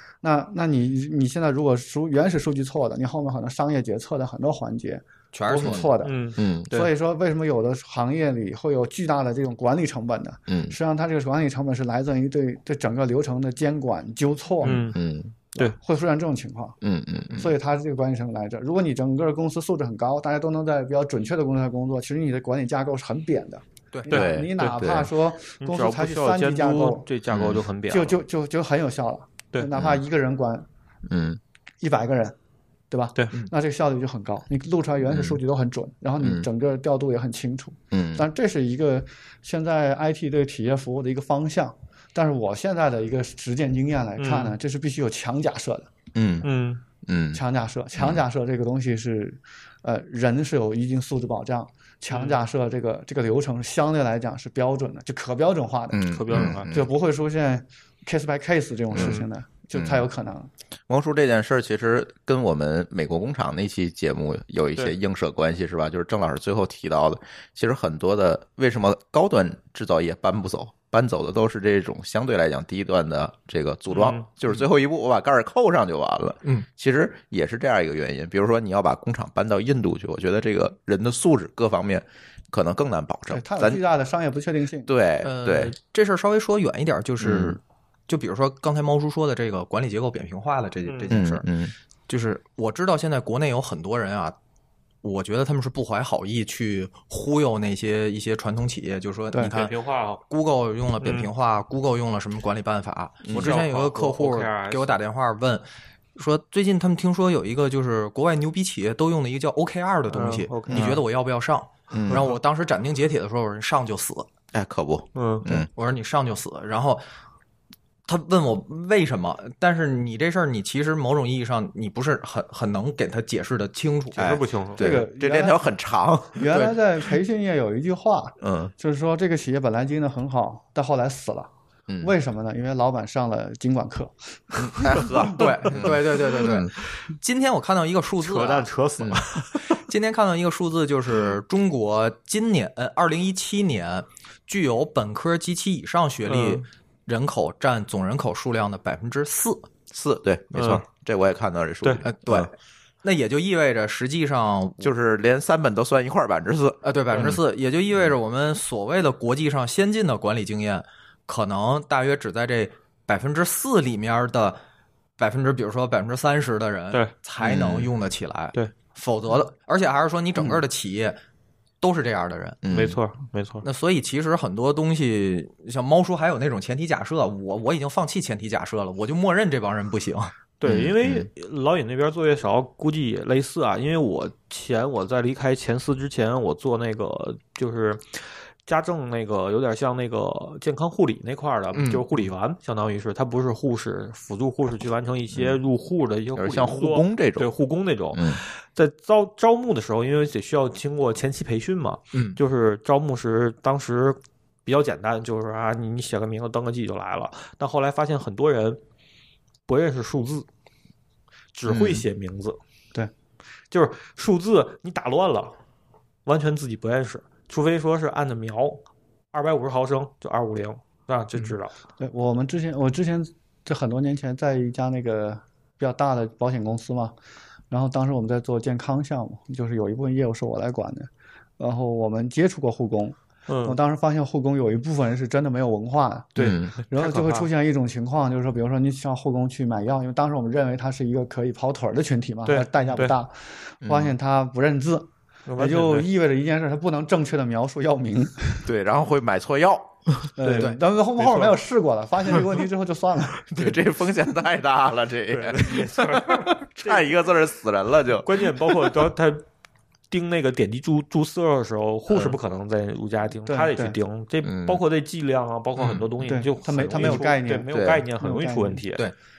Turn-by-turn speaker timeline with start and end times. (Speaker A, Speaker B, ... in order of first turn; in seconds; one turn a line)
Speaker A: 0.2-14.9
Speaker B: 5.3-5.8
Speaker C: 5.6-6.7
Speaker D: 6.0-6.9
Speaker C: 10.5-10.8
Speaker D: 14.6-15.0
Speaker C: 14.7-15.3
Speaker A: 15.5-16.8
Speaker C: 16.8-17.5
Speaker A: 17.3-27.1
Speaker B: 23.9-24.2
Speaker C: 24.1-25.1
Speaker D: 25.6-28.2
Speaker C: 27.3-27.6
Speaker A: 27.9-30.7
Speaker C: 29.7-30.0
Speaker C: 31.1-31.4
Speaker A: 31.8-32.4
Speaker A: 32.9-45.9
Speaker C: 35.0-35.4
Speaker C: 36.2-36.5
Speaker C: 37.9-38.2
Speaker D: 44.2-44.5
Speaker C: 46.1-46.5
Speaker D: 46.4-46.8
Speaker C: 47.0-47.4
Speaker A: 47.3-60.5
Speaker D: 52.1-52.4
Speaker C: 55.9-56.9
Speaker D: 56.1-56.7
Speaker C: 58.9-59.2
Speaker D: 59.0-59.2
Speaker C: 59.7-60.0
Speaker C: 60.9-83.8
Speaker D: 73.9-74.2
Speaker A: 83.3-84.9
Speaker C: 84.8-85.7
Speaker B: 85.2-91.4
Speaker C: 87.2-87.6
Speaker D: 90.8-91.1
Speaker C: 91.1-91.7
Speaker B: 92.1-94.3
Speaker B: 95.0-99.7
Speaker D: 99.4-100.2
Speaker B: 100.3-114.3
Speaker D: 101.0-101.3
Speaker C: 103.2-103.5
Speaker D: 103.3-104.9
Speaker D: 110.1-111.0
Speaker C: 110.7-111.0
Speaker C: 111.9-112.2
Speaker D: 112.1-112.4
Speaker C: 114.5-115.7
Speaker D: 115.1-115.5
Speaker B: 115.5-117.0
Speaker B: 118.1-124.3
Speaker C: 124.2-126.5
Speaker D: 124.2-124.8
Speaker A: 124.8-125.7
Speaker A: 126.3-131.5
Speaker C: 128.4-128.7
Speaker C: 131.9-132.1
Speaker A: 132.0-135.1
Speaker C: 134.6-136.7
Speaker B: 135.2-138.7
Speaker D: 138.2-139.8
Speaker B: 139.7-149.7
Speaker D: 146.2-146.6
Speaker C: 149.9-152.5
Speaker D: 150.5-150.8
Speaker B: 152.0-152.5
Speaker B: 153.0-154.9
Speaker C: 154.8-157.4
Speaker B: 156.8-164.6
Speaker B: 165.2-171.2
Speaker C: 167.4-167.9
Speaker B: 171.8-172.6
Speaker C: 172.6-173.0
Speaker D: 172.7-173.6
Speaker B: 173.6-180.3
Speaker D: 180.6-188.1
Speaker C: 180.6-181.3
Speaker D: 188.7-208.8
Speaker B: 191.7-192.2
Speaker C: 195.3-195.6
Speaker C: 196.3-197.5
Speaker C: 198.1-198.4
Speaker B: 202.1-202.4
Speaker D: 209.7-210.5
Speaker D: 211.5-212.6
Speaker D: 213.7-215.5
Speaker D: 216.2-221.7
Speaker A: 222.0-227.1
Speaker A: 227.7-248.7
Speaker D: 233.5-233.8
Speaker D: 236.4-237.5
Speaker C: 236.4-236.7
Speaker D: 242.4-243.1
Speaker C: 243.8-244.1
Speaker D: 245.5-246.1
Speaker C: 248.6-250.3
Speaker A: 250.4-253.4
Speaker D: 250.4-251.6
Speaker C: 253.5-258.9
Speaker D: 255.3-257.1
Speaker D: 258.1-259.4
Speaker D: 260.1-269.1
Speaker C: 262.1-262.4
Speaker A: 263.4-263.9
Speaker C: 264.4-264.8
Speaker B: 265.8-266.1
Speaker A: 266.2-268.8
Speaker C: 267.7-268.0